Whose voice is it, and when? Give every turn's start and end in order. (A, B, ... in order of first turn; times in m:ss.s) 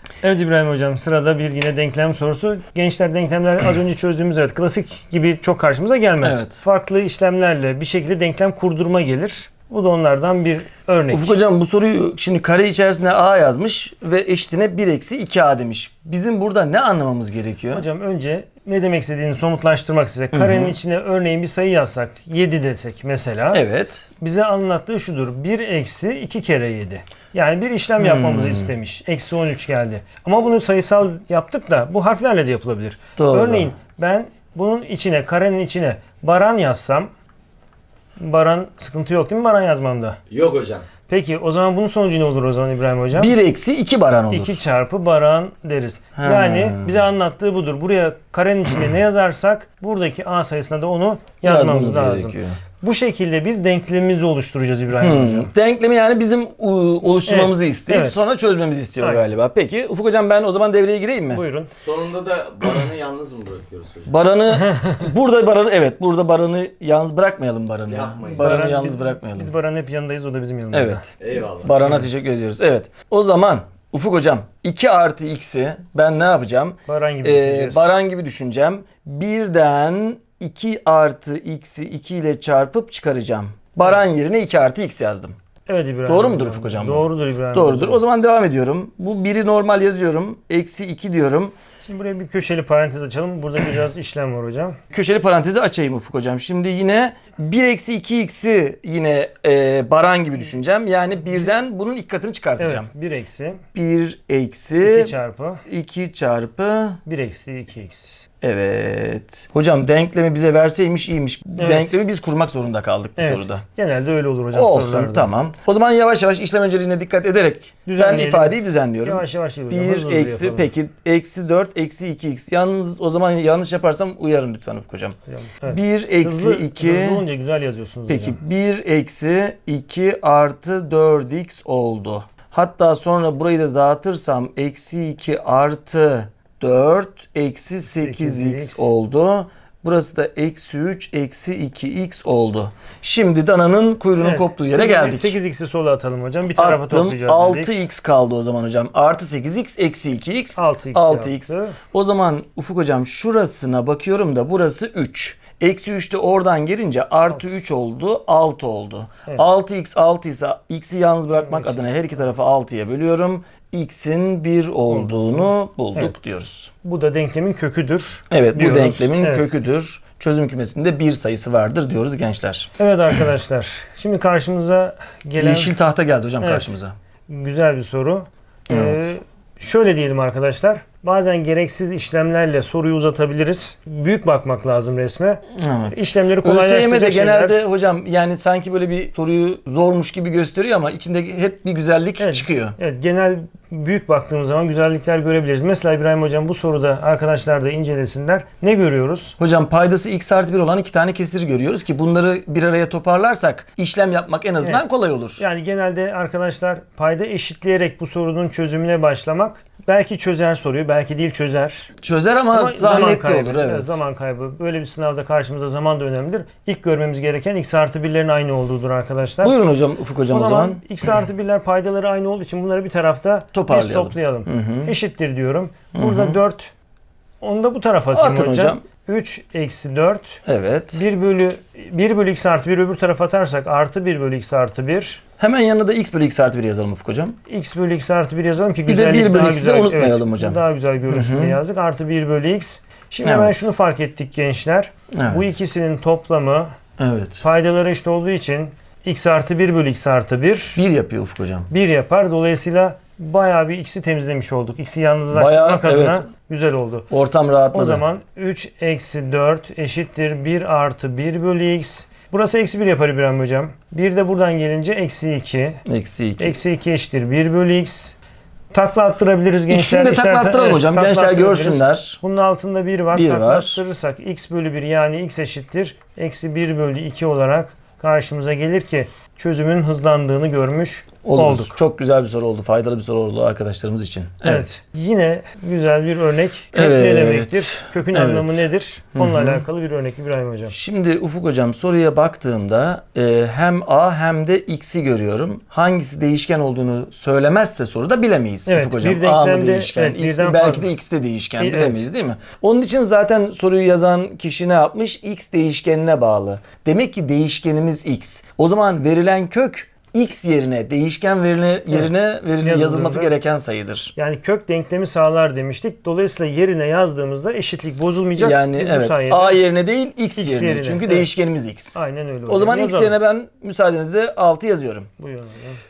0:00.2-0:11.4 A
0:06.2-0:06.6 B
0:11.1-0:17.8 B
0:17.7-0:23.6 A
0:20.3-0:20.7 B
0:23.5-0:24.0 B
0:24.2-0:37.1 A
0:28.0-0:28.7 B
0:33.2-0:33.7 B
0:38.2-0:40.2 A
0:40.3-0:40.8 C
0:41.1-0:43.3 A
0:43.1-0:44.6 B
0:44.3-0:55.5 A
0:46.2-0:47.0 B
0:51.4-0:52.6 B
0:55.0-1:01.4 B
0:57.3-0:58.2 A
1:01.3-1:01.7 A
1:01.8-1:04.1 C
1:04.1-1:09.5 B
1:07.9-1:08.7 C
1:08.3-1:11.0 A
1:10.7-1:11.0 B
1:11.2-1:11.8 C
1:11.6-1:25.4 B
1:11.8-1:12.0 A
1:16.9-1:17.9 A
1:25.7-1:28.0 A
1:26.1-1:31.5 B
1:31.8-1:34.8 A
1:34.9-1:42.9 B
1:42.6-1:43.6 A
1:43.7-1:45.1 B
1:44.8-1:45.6 A
1:45.6-1:47.0 B
1:47.0-1:48.2 A
1:48.4-1:53.6 B
1:51.6-1:51.9 A
1:53.2-1:55.3 A
1:54.5-2:07.2 B
1:57.8-2:00.7 A
2:05.3-2:08.4 A
2:08.1-2:25.4 B
2:17.8-2:18.9 A
2:24.2-2:27.8 A
2:26.5-2:46.7 B
2:30.6-2:31.8 A
2:41.4-2:41.9 A
2:44.9-2:46.1 A
2:46.8-2:49.5 A
2:48.3-2:52.7 B
2:52.8-2:55.8 A
2:55.4-2:56.9 B
2:56.4-2:56.7 A
2:57.3-3:07.6 A
2:58.7-2:59.1 B
3:05.5-3:12.8 B
3:12.2-3:19.4 A
3:19.4-3:25.4 B
3:25.4-3:31.9 A
3:32.0-3:34.0 B
3:32.5-3:39.5 A
3:39.4-3:40.8 B
3:40.3-3:46.7 A
3:43.5-3:44.9 B
3:45.9-3:46.4 B
3:47.4-3:50.4 A
3:48.1-3:48.8 B
3:50.4-3:51.0 B
3:50.9-3:55.2 A
3:55.4-3:57.4 B
3:57.5-4:06.7 A
3:58.9-4:01.6 B
4:03.2-4:03.6 B
4:05.1-4:05.5 B
4:07.0-4:07.4 B
4:07.4-4:10.8 A
4:10.8-4:11.7 B
4:11.7-4:17.1 A
4:15.3-4:16.2 B
4:17.1-4:18.0 B
4:17.7-4:25.8 A
4:25.8-4:26.6 B
4:26.4-4:28.2 A
4:28.7-4:41.8 A
4:29.7-4:32.2 B
4:33.1-4:33.8 B
4:41.2-4:44.7 B
4:44.4-4:50.8 A
4:46.7-4:49.6 B
4:50.7-5:14.1 B
4:58.7-5:00.9 A
5:01.6-5:02.0 A
5:11.9-5:13.3 A
5:14.2-5:19.6 A
5:18.4-5:25.1 B
5:20.4-5:21.3 A
5:21.9-5:23.1 A
5:25.2-5:25.8 A